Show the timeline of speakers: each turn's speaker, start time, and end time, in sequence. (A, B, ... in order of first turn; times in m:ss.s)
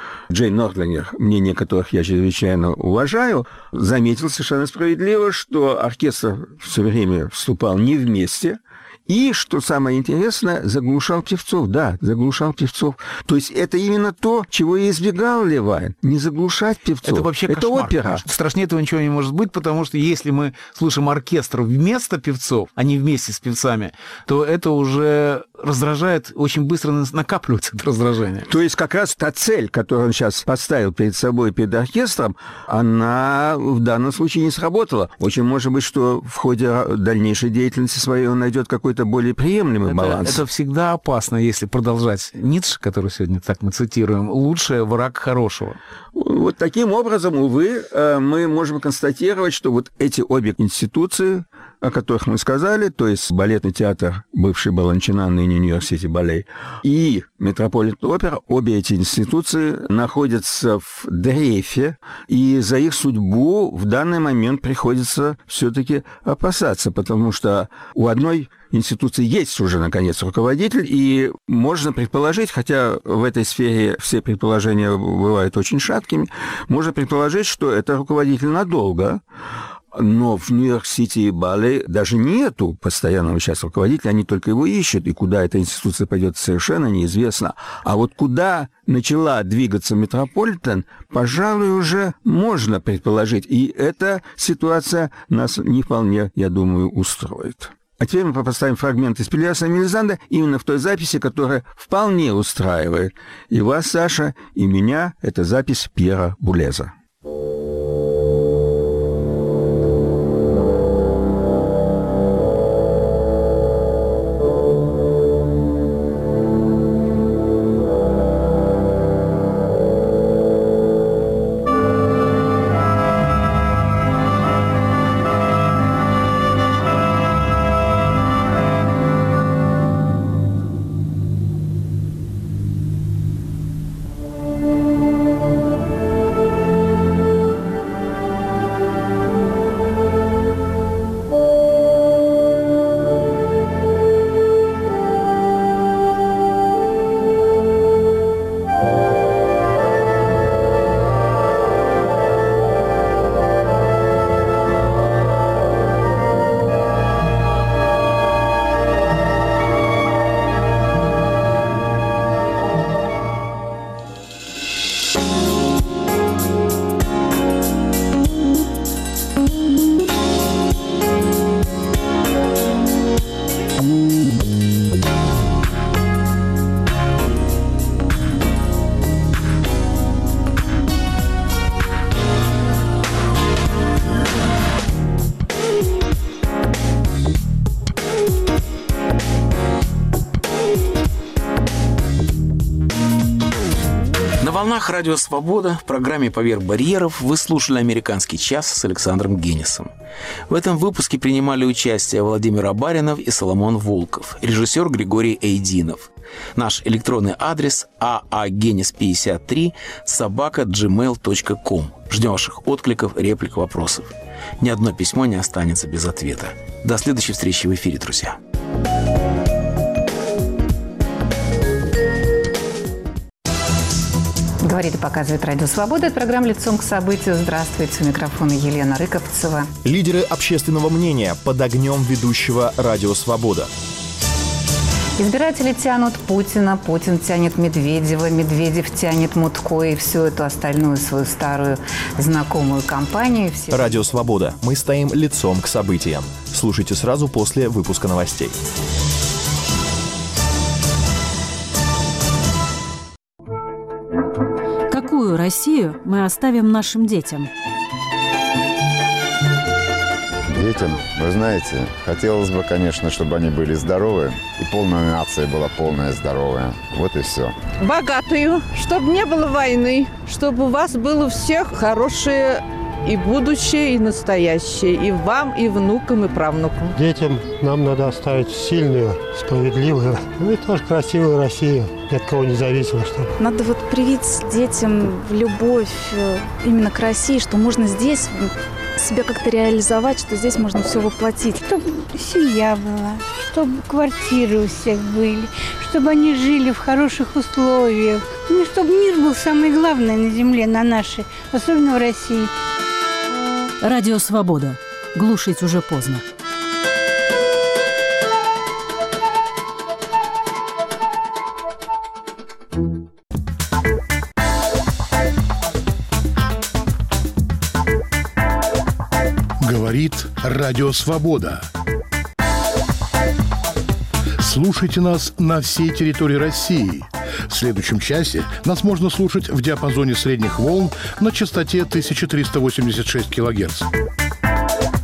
0:00.3-0:18.2 A
0:17.0-0:28.5 B
0:28.5-0:40.4 A
0:39.8-0:45.8 B
0:46.1-1:19.2 A
1:19.9-1:46.9 A
3:14.4-3:19.9 B
3:20.5-3:38.4 B
3:44.6-3:49.7 C
3:49.8-3:53.7 D
3:55.2-4:03.9 C
4:03.7-4:08.5 D
4:14.9-4:17.5 E
4:20.5-4:27.5 F
4:27.8-4:37.0 G
4:36.9-4:43.3 H
4:43.4-4:51.6 I
4:51.6-5:02.5 J
5:03.8-5:06.2 E
5:19.6-5:21.6 K
5:24.4-5:33.9 K